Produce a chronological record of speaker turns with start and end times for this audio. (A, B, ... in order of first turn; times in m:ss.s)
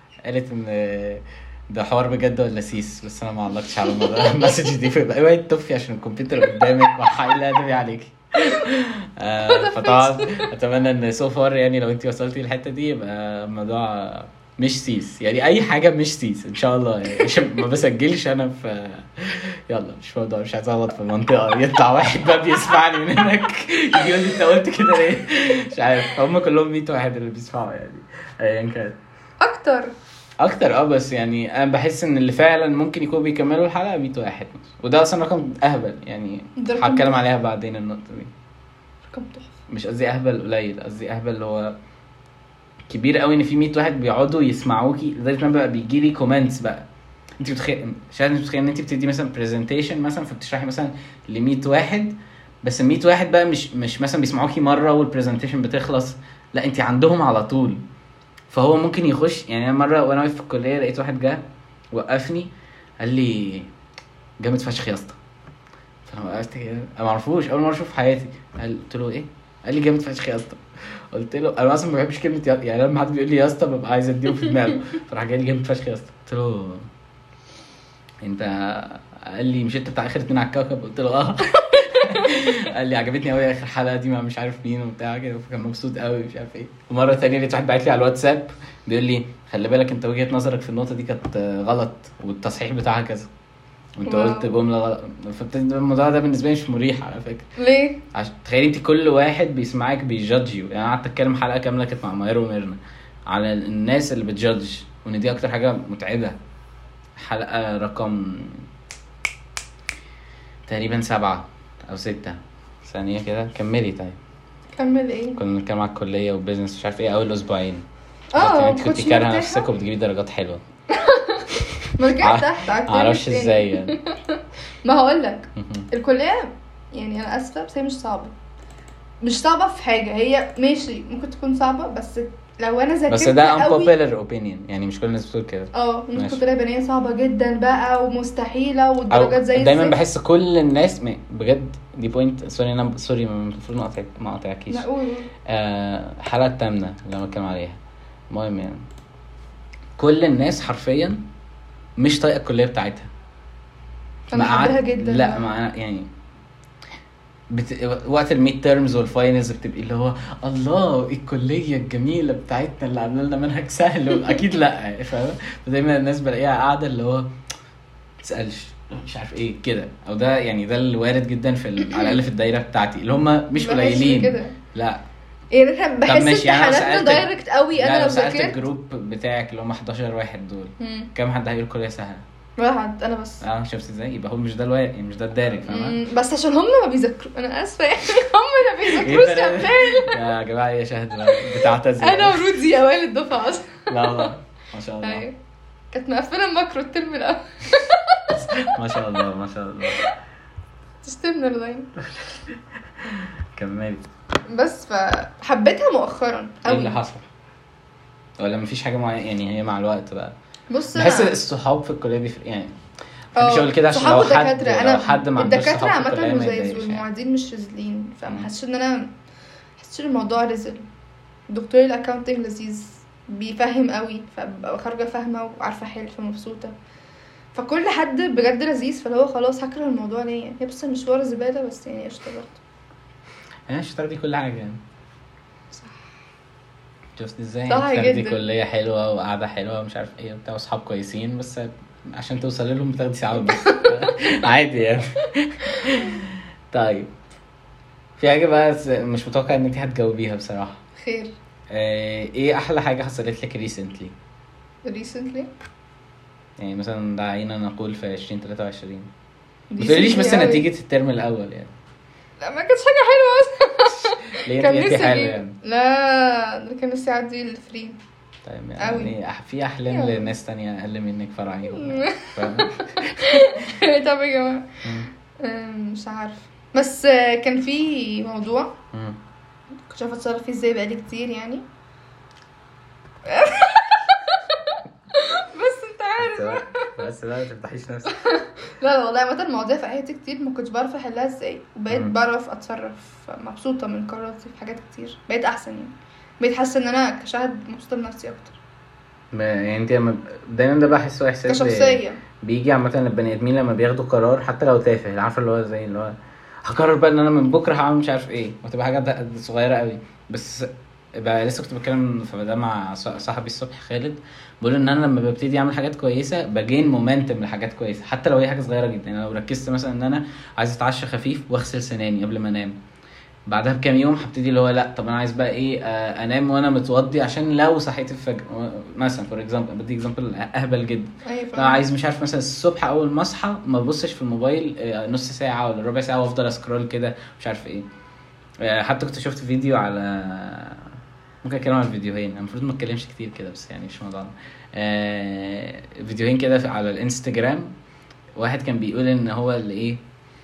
0:00.2-0:29.0 A
0:04.0-0:04.5 B
0:09.4-0:10.5 B
0:29.4-0:29.9 B
0:30.4-0:38.3 A
0:36.6-0:37.2 B
0:39.1-0:39.6 B
0:39.7-0:41.8 A
0:42.9-0:46.9 A
0:47.4-0:57.8 A
0:58.5-1:03.7 A
1:04.4-1:05.2 A
1:06.1-1:16.9 A
1:18.2-1:33.3 A
1:21.7-1:22.3 B
1:34.0-1:37.5 A
1:34.1-1:34.5 B
1:37.6-1:38.0 B
1:38.1-1:46.4 A
1:47.2-1:48.7 A
1:50.7-1:54.2 A
1:54.8-1:55.4 B
1:55.4-1:57.8 A
1:58.3-1:59.7 B
1:58.4-2:00.6 A
2:00.9-2:08.3 B
2:01.6-2:04.0 A
2:05.6-2:05.9 A
2:09.2-2:13.9 B
2:13.1-2:16.4 A
2:15.7-2:20.0 B
2:19.1-2:24.9 A
2:24.7-2:25.3 B
2:25.5-2:27.8 A
2:28.3-2:28.8 A
2:30.0-2:31.2 A
2:32.0-2:33.1 A
2:34.3-2:35.5 B
2:34.3-2:36.1 A
2:37.5-2:47.3 A
2:48.2-2:55.0 A
2:53.6-2:54.6 B
2:55.5-2:58.6 B
2:56.1-3:02.2 A
3:00.8-3:01.1 B
3:02.6-3:03.4 B
3:03.4-3:06.0 A
3:05.7-3:10.2 B
3:08.8-3:12.6 A
3:12.0-3:14.3 B
3:13.9-3:15.2 A
3:15.0-3:15.4 B
3:15.9-3:18.6 B
3:18.3-3:20.1 A
3:21.0-3:22.0 B
3:23.0-3:24.1 A
3:24.5-3:27.0 B
3:26.6-3:27.2 A
3:28.4-3:30.3 A
3:30.7-3:31.3 B
3:30.9-3:32.7 A
3:33.4-3:37.0 A
3:33.4-3:39.1 B
3:39.8-3:40.8 B
3:41.5-3:46.7 B
3:47.5-3:52.6 B
3:53.7-3:54.8 A
3:55.7-3:56.0 B
3:57.2-4:07.1 A
3:57.7-3:58.4 B
4:03.4-4:04.1 B
4:08.2-4:10.8 A
4:11.0-4:11.3 B
4:11.7-4:14.1 A
4:14.8-4:15.5 B
4:16.6-4:19.1 A
4:19.7-4:20.6 B
4:19.8-4:21.7 A
4:22.4-4:28.0 B
4:23.9-4:25.6 A
4:28.4-4:33.8 A
4:28.8-4:29.1 B
4:29.9-4:30.3 B
4:31.7-4:34.8 B
4:34.8-4:35.1 A
4:35.4-4:38.8 B
4:38.9-4:39.2 A
4:39.9-4:41.6 B
4:43.3-4:46.9 B
4:46.2-4:48.1 A
4:48.1-4:58.6 B
4:59.3-5:22.8 A
5:01.5-5:02.2 B
5:23.5-5:37.9 A
5:31.2-5:31.8 B
5:38.6-5:47.7 A
5:48.4-5:50.0 A